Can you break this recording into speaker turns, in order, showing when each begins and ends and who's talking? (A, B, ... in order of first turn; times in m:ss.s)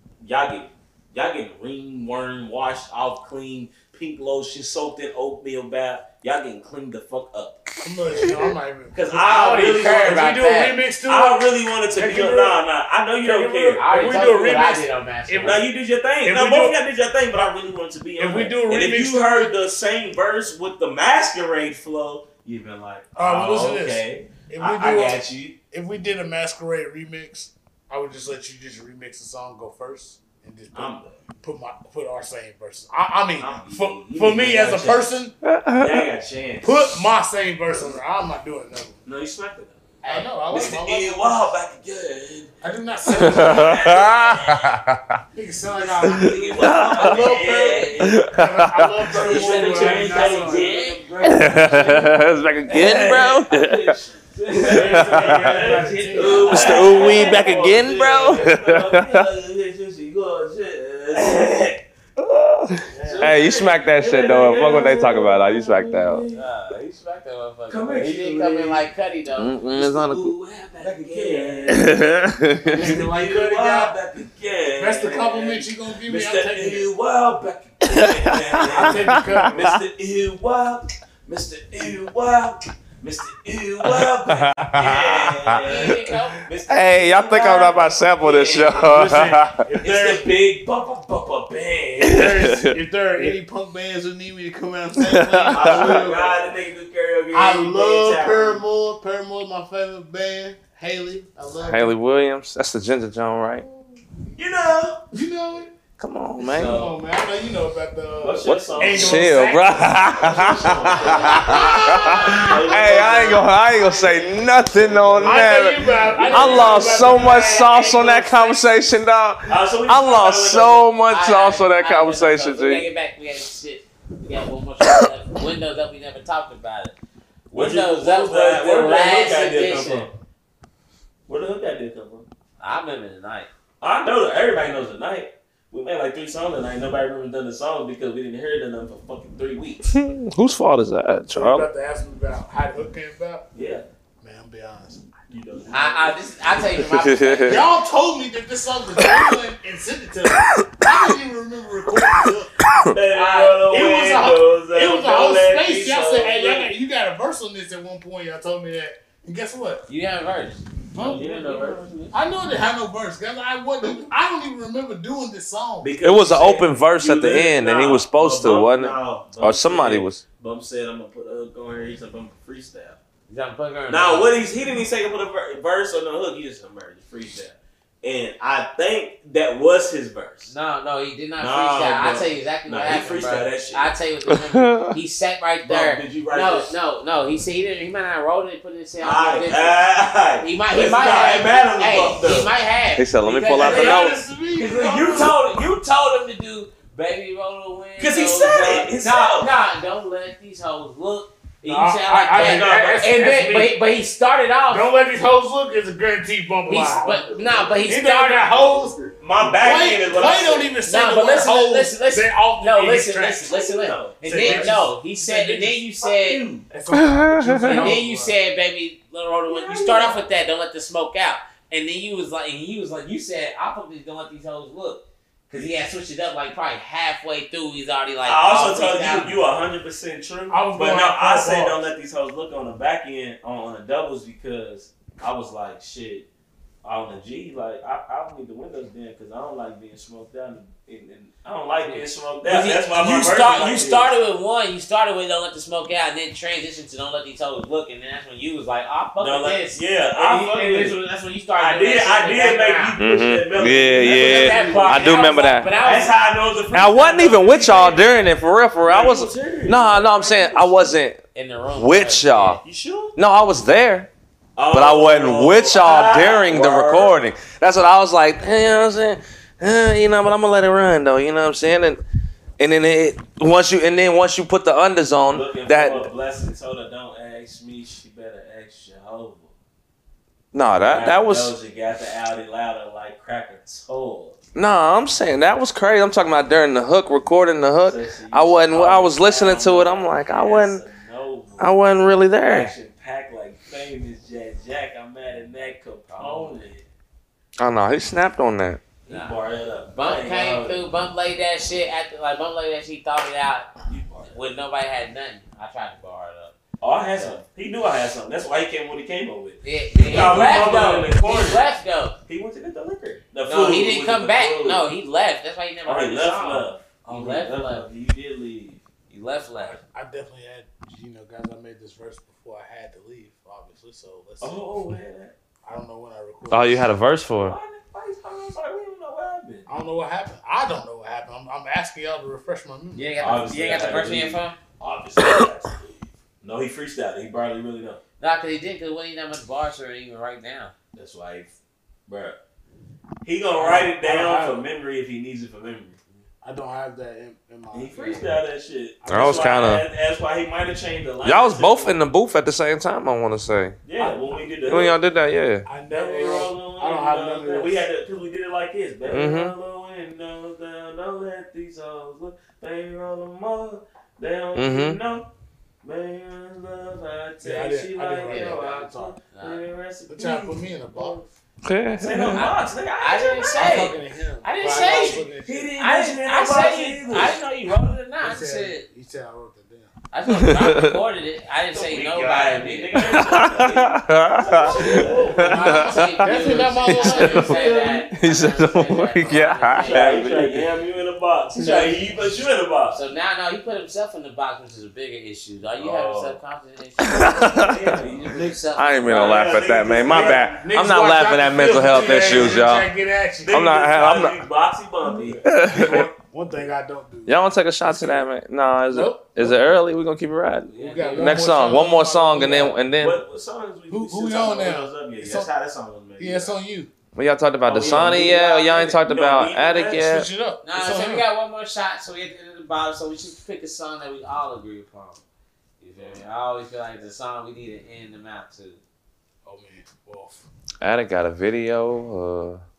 0:00.2-0:07.6 A
0:07.8-0:12.6 B
0:08.9-0:10.4 A
0:09.1-0:10.8 C
0:11.1-0:14.3 A
0:13.2-0:15.7 B
0:13.8-0:15.6 C
0:15.4-0:25.6 A
0:16.2-0:16.8 B
0:18.2-0:19.5 B
0:23.2-0:35.3 B
0:30.7-0:31.2 A
0:33.4-0:35.1 A
0:35.5-0:36.0 D
0:35.8-0:36.8 A
0:36.6-0:39.0 B
0:39.0-0:39.8 A
0:40.0-0:41.6 B
0:40.5-0:42.5 A
0:42.6-0:44.3 B
0:43.2-0:44.7 A
0:43.2-0:45.0 D
0:45.3-0:50.8 B
0:45.7-0:48.3 A
0:46.0-0:47.4 D
0:48.0-0:49.2 D
0:49.1-1:01.8 A
0:49.3-0:51.0 C
0:51.2-0:53.9 D
0:54.5-0:57.2 B
0:54.7-0:55.7 D
0:55.9-0:57.1 C
0:56.3-0:59.2 D
1:02.2-1:06.2 D
1:02.9-1:03.5 B
1:03.0-1:06.5 A
1:06.3-1:09.6 C
1:07.7-1:08.9 A
1:09.4-1:10.3 D
1:09.7-1:12.0 A
1:10.9-1:11.6 C
1:11.1-1:11.5 B
1:11.7-1:13.0 D
1:12.6-1:14.0 B
1:12.6-1:28.8 A
1:14.8-1:16.9 B
1:17.8-1:19.8 D
1:18.7-1:19.7 B
1:23.8-1:25.9 D
1:25.6-1:26.4 C
1:26.6-1:29.6 D
1:28.8-1:30.3 B
1:29.8-1:32.3 A
1:32.0-1:33.3 D
1:32.1-1:36.5 B
1:35.0-1:36.0 D
1:35.5-1:38.6 A
1:37.3-1:41.9 B
1:41.6-1:43.6 D
1:43.6-1:44.3 B
1:44.4-1:45.0 A
1:45.1-1:45.7 B
1:46.0-1:46.9 D
1:46.4-1:52.2 B
1:46.4-1:46.9 A
1:48.2-1:49.3 A
1:48.4-2:02.9 D
1:50.1-1:53.6 A
1:54.6-1:57.5 A
1:55.2-1:58.6 B
1:59.5-2:00.9 A
2:01.1-2:06.9 C
2:07.5-2:10.1 A
2:07.5-2:10.1 C
2:11.3-2:12.2 A
2:12.6-2:13.5 C
2:13.8-2:19.9 A
2:19.9-2:21.7 D
2:21.3-2:23.4 B
2:23.5-2:23.8 A
2:24.2-2:25.1 B
2:25.3-2:26.7 A
2:25.7-2:27.6 C
2:26.8-2:27.6 D
2:27.4-2:32.6 B
2:32.8-2:36.7 A
2:33.2-2:39.8 B
2:39.9-2:42.1 C
2:40.9-2:41.3 B
2:41.0-2:41.8 A
2:42.1-2:45.9 B
2:45.8-2:53.0 A
2:46.0-2:50.2 D
2:53.3-2:54.4 C
2:53.9-3:00.5 A
3:00.5-3:09.8 C
3:01.4-3:03.9 A
3:04.5-3:04.9 D
3:05.6-3:06.7 A
3:09.0-3:12.5 A
3:10.4-3:14.2 C
3:13.0-3:14.2 D
3:13.6-3:15.3 B
3:13.6-3:14.0 A
3:14.6-3:15.6 A
3:14.8-3:25.0 C
3:18.0-3:19.5 A
3:21.6-3:23.8 B
3:22.3-3:23.3 A
3:24.7-3:33.5 B
3:26.7-3:28.6 C
3:26.8-3:27.8 A
3:29.2-3:30.7 A
3:30.8-3:36.4 C
3:33.4-3:34.8 A
3:34.2-3:35.8 B
3:36.0-3:36.7 A
3:36.7-3:38.3 B
3:36.9-3:38.0 D
3:37.6-3:49.4 C
3:39.5-3:40.2 A
3:48.2-3:56.3 A
3:50.5-3:51.8 B
3:56.8-4:04.1 A
4:01.8-4:13.0 C
4:09.2-4:11.0 A
4:11.6-4:18.2 A
4:13.0-4:15.7 D
4:13.9-4:16.1 C
4:16.7-4:21.2 D
4:18.8-4:21.0 A
4:21.3-4:22.6 C
4:21.7-4:22.6 D
4:22.6-4:23.2 A
4:23.2-4:24.1 D
4:24.6-4:27.2 A
4:24.7-4:32.0 D
4:32.6-4:36.1 D
4:35.3-4:39.5 A
4:40.5-4:41.5 D
4:40.8-4:44.4 A
4:44.5-4:50.8 D
4:47.8-4:51.7 A
4:51.6-4:52.7 D
4:52.4-4:56.8 A
4:56.1-4:56.7 C
4:57.6-4:58.8 D
4:59.1-5:00.8 A
4:59.1-4:59.4 C
4:59.9-5:03.7 C
5:03.9-5:04.4 A
5:04.2-5:06.5 C
5:06.8-5:11.7 A
5:07.1-5:07.4 C
5:09.6-5:12.2 C
5:12.3-5:14.9 A
5:13.4-5:17.8 C
5:15.8-5:18.8 A
5:19.1-5:19.8 C
5:19.6-5:24.6 B
5:24.4-5:25.3 A
5:25.6-5:26.9 B
5:26.5-5:27.6 D
5:27.3-5:29.7 A
5:29.7-5:33.1 B
5:32.9-5:34.6 C
5:33.2-5:38.0 A
5:38.2-5:40.7 C
5:40.9-5:41.5 A
5:42.1-5:42.4 A
5:43.2-5:46.0 A
5:43.6-5:44.6 B
5:46.4-5:48.4 B
5:47.7-5:52.0 A
5:49.0-5:49.7 B
5:49.1-5:49.8 D
5:51.2-5:53.8 D
5:53.8-5:55.0 A
5:54.0-5:54.6 B
5:54.6-5:55.6 D
5:55.6-5:57.8 B
5:55.9-6:05.3 A
5:59.1-5:59.5 D
6:04.6-6:05.0 D
6:05.8-6:11.3 A
6:07.4-6:09.2 B
6:08.2-6:09.6 C
6:10.1-6:11.2 B
6:11.6-6:12.5 D
6:12.0-6:13.9 A
6:13.0-6:15.2 C
6:13.5-6:15.7 B
6:14.6-6:17.4 A
6:15.8-6:18.8 C
6:18.2-6:19.9 B
6:20.1-6:23.2 C
6:20.3-6:21.0 D
6:21.7-6:25.6 A
6:23.0-6:30.6 D
6:24.7-6:27.9 B
6:24.7-6:30.3 C
6:27.0-6:28.1 A
6:29.8-6:33.0 A
6:31.6-6:31.9 B
6:32.9-6:39.6 C
6:35.7-6:36.4 A
6:37.0-6:37.8 D
6:37.5-6:38.4 A
6:38.3-6:38.6 B
6:38.8-6:42.9 D
6:39.0-6:40.6 A
6:40.0-6:43.7 B
6:41.8-6:42.6 A
6:43.4-6:45.4 A
6:43.5-6:44.4 D
6:45.4-6:46.1 D
6:45.5-6:48.2 B
6:47.3-6:53.2 D
6:48.9-6:49.7 B
6:50.7-6:51.6 C
6:50.8-6:52.8 B
6:53.0-6:56.6 A
6:53.9-6:55.5 B
6:56.2-6:56.9 B
6:57.1-7:00.3 D
6:57.6-7:00.1 A
6:57.8-6:58.2 C
7:00.0-7:01.3 B
7:00.6-7:05.2 C
7:05.8-7:08.8 C
7:09.4-7:10.4 B
7:10.8-7:12.6 D